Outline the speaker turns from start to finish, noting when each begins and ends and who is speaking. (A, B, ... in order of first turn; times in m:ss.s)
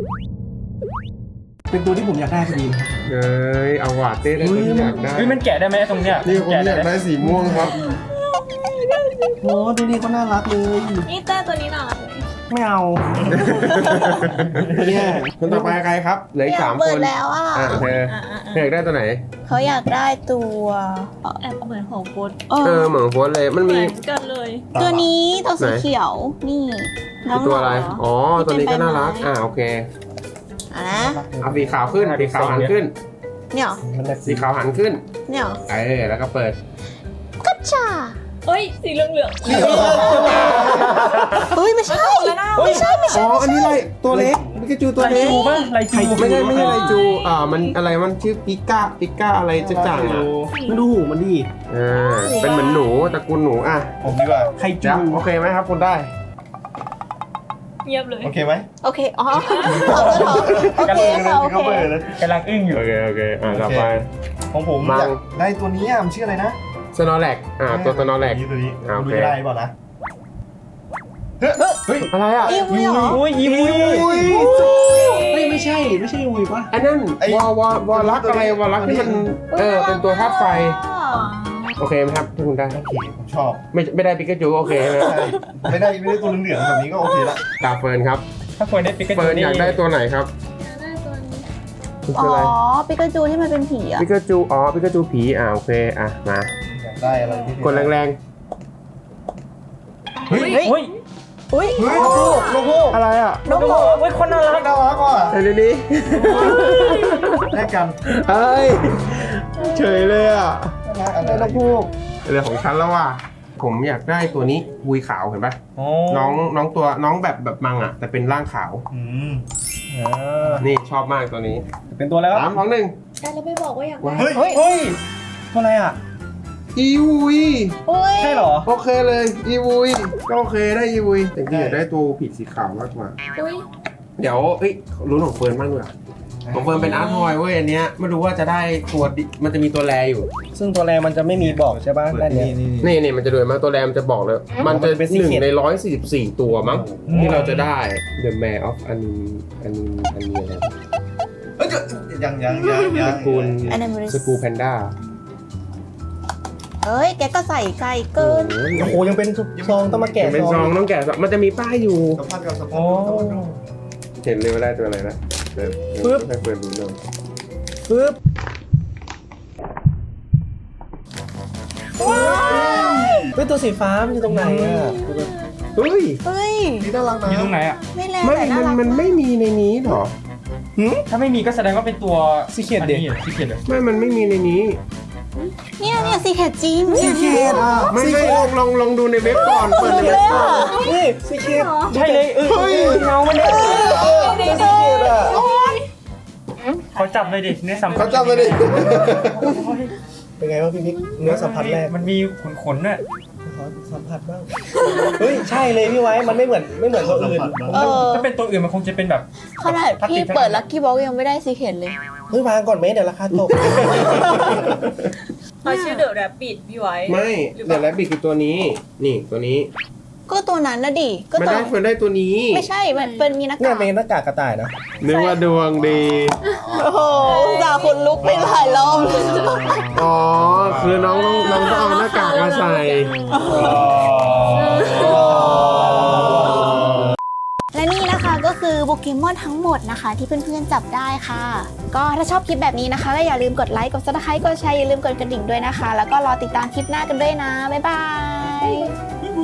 0:01.7-0:02.9 A
0:03.1-0:05.4 B
0:04.4-0:05.0 A
0:05.1-0:06.9 C
0:06.2-0:07.8 B
0:07.5-0:09.5 D
0:09.4-0:11.1 A
0:11.0-0:12.3 D
0:12.5-0:13.6 A
0:13.3-0:19.2 B
0:13.6-0:14.2 D
0:14.2-0:14.9 C
0:14.9-0:15.3 A
0:16.4-0:17.9 E
0:17.9-0:18.7 D
0:19.4-0:21.3 E
0:21.3-0:22.4 D
0:22.5-0:22.9 E
0:22.6-0:23.9 B
0:23.6-0:24.7 D
0:24.7-0:25.1 F
0:24.8-0:29.3 E
0:25.6-0:25.9 B
0:27.2-0:29.9 B
0:30.7-0:31.2 E
0:30.9-0:31.8 F
0:31.4-0:32.9 B
0:31.8-0:32.7 C
0:33.5-0:33.8 E
0:34.2-0:35.0 B
0:35.3-0:35.6 E
0:35.7-0:36.6 B
0:37.4-0:38.2 E
0:38.4-0:40.3 D
0:39.4-0:41.3 F
0:39.5-0:43.8 E
0:39.9-0:41.5 C
0:41.8-0:43.2 D
0:42.5-0:42.9 C
0:43.1-0:45.6 B
0:43.6-0:44.4 F
0:45.0-0:46.9 C
0:45.0-0:45.5 E
0:45.9-0:46.9 A
0:46.1-0:50.3 B
0:46.6-0:47.7 D
0:49.6-0:50.5 F
0:49.8-0:50.5 C
0:50.5-0:50.8 D
0:50.6-0:51.5 A
0:51.7-0:53.9 B
0:51.9-0:52.7 E
0:52.4-0:52.9 D
0:54.0-0:54.5 F
0:54.6-0:55.2 C
0:54.8-0:56.1 B
0:57.8-0:58.3 D
0:58.2-0:58.7 F
0:58.8-1:01.9 E
0:59.4-1:00.3 D
0:59.7-1:02.2 F
0:59.9-1:01.2 C
1:02.1-1:02.8 C
1:02.7-1:04.0 B
1:03.4-1:04.0 F
1:04.5-1:04.9 C
1:04.8-1:06.6 F
1:04.8-1:05.2 B
1:06.9-1:09.4 B
1:07.6-1:09.7 F
1:11.6-1:11.8 C
1:12.1-1:12.6 B
1:12.4-1:13.3 E
1:12.7-1:14.1 C
1:13.1-1:14.4 F
1:14.1-1:15.7 D
1:14.3-1:15.2 E
1:14.3-1:14.7 A
1:15.3-1:16.7 A
1:16.7-1:20.8 B
1:17.2-1:19.3 F
1:19.5-1:21.7 E
1:21.1-1:21.6 D
1:21.8-1:22.8 B
1:22.7-1:23.6 F
1:23.7-1:25.4 B
1:25.0-1:27.4 F
1:27.5-1:28.2 B
1:28.6-1:29.8 C
1:29.1-1:30.3 B
1:30.6-1:31.5 D
1:32.1-1:32.6 B
1:32.1-1:34.1 E
1:34.0-1:36.5 B
1:36.6-1:37.9 F
1:37.6-1:38.2 B
1:40.3-1:40.8 D
1:40.3-1:40.5 F
1:40.4-1:40.9 C
1:40.4-1:40.7 E
1:41.5-1:42.4 E
1:41.5-1:42.5 C
1:41.8-1:43.0 F
1:41.8-1:42.7 D
1:42.9-1:43.4 B
1:43.4-1:44.0 E
1:43.4-1:44.7 C
1:44.3-1:45.4 F
1:45.3-1:47.5 B
1:46.2-1:47.0 E
1:47.5-1:48.0 F
1:48.1-1:50.8 B
1:50.8-1:51.9 F
1:51.2-1:51.7 C
1:52.2-1:55.6 B
1:55.8-1:56.4 C
1:56.1-1:58.8 B
1:58.9-1:59.4 F
1:59.9-2:00.6 A
2:00.6-2:01.6 B
2:01.9-2:02.2 A
2:02.0-2:02.4 C
2:02.3-2:03.0 B
2:03.2-2:04.6 D
2:04.0-2:04.3 B
2:04.2-2:04.4 F
2:04.4-2:05.0 C
2:05.5-2:06.0 A
2:06.7-2:07.8 B
2:07.9-2:08.5 D
2:08.3-2:08.7 A
2:08.6-2:13.1 B
2:11.5-2:11.8 F
2:13.3-2:13.6 D
2:14.2-2:15.9 B
2:16.4-2:16.8 F
2:16.5-2:20.3 B
2:16.8-2:17.4 D
2:20.5-2:22.5 A
2:21.3-2:22.9 F
2:22.8-2:30.7 B
2:24.6-2:24.9 F
2:24.9-2:25.5 A
2:26.5-2:27.7 F
2:27.0-2:27.6 C
2:31.6-2:33.8 F
2:32.5-2:32.9 E
2:32.9-2:34.9 B
2:33.7-2:34.4 E
2:36.8-2:38.6 E
2:38.2-2:39.0 B
2:38.8-2:40.7 A
2:39.2-2:40.1 C
2:39.5-2:40.7 F
2:40.2-2:42.2 B
2:42.1-2:43.5 F
2:42.7-2:43.6 C
2:44.2-2:47.0 B
2:47.9-2:48.2 A
2:52.0-2:53.3 E
2:52.0-2:52.8 F
2:53.3-2:55.1 A
2:54.3-2:54.8 C
2:54.5-2:55.3 D
2:55.8-2:56.2 B
2:56.2-2:56.9 E
2:56.8-2:57.5 F
2:57.2-2:57.8 C
2:57.8-2:59.2 E
2:58.2-3:00.1 B
3:01.1-3:03.6 C
3:03.6-3:04.8 B
3:05.8-3:08.0 E
3:05.9-3:06.2 F
3:06.9-3:08.3 A
3:07.8-3:08.5 F
3:07.9-3:10.7 B
3:09.3-3:10.9 E
3:09.9-3:13.0 A
3:10.3-3:12.0 D
3:11.9-3:14.0 C
3:12.4-3:13.1 B
3:12.6-3:14.4 F
3:13.3-3:15.9 D
3:13.4-3:15.7 E
3:14.4-3:15.4 A
3:16.9-3:17.6 D
3:17.0-3:19.9 C
3:17.9-3:19.6 B
3:20.4-3:21.9 A
3:21.1-3:23.0 C
3:23.4-3:24.5 A
3:24.8-3:25.1 D
3:24.8-3:25.1 E
3:25.2-3:27.6 A
3:25.4-3:25.9 C
3:26.2-3:27.9 F
3:27.6-3:30.6 C
3:27.7-3:28.3 E
3:29.6-3:32.0 E
3:32.3-3:34.2 A
3:33.8-3:34.7 E
3:35.6-3:37.9 D
3:35.6-3:36.0 E
3:37.0-3:39.7 B
3:40.3-3:41.7 E
3:41.3-3:42.7 B
3:42.5-3:43.9 E
3:42.9-3:43.3 D
3:43.6-3:44.7 A
3:45.0-3:46.4 B
3:45.0-3:45.4 D
3:46.5-3:48.0 D
3:46.7-3:49.9 E
3:49.1-3:49.8 D
3:49.9-3:53.1 B
3:50.6-3:51.0 F
3:50.9-3:53.8 D
3:53.3-3:53.9 E
3:53.5-3:55.1 C
3:54.4-3:55.8 D
3:54.9-3:56.8 E
3:54.9-3:57.0 F
3:55.8-3:56.3 C
3:56.4-3:56.9 D
3:57.7-4:08.9 E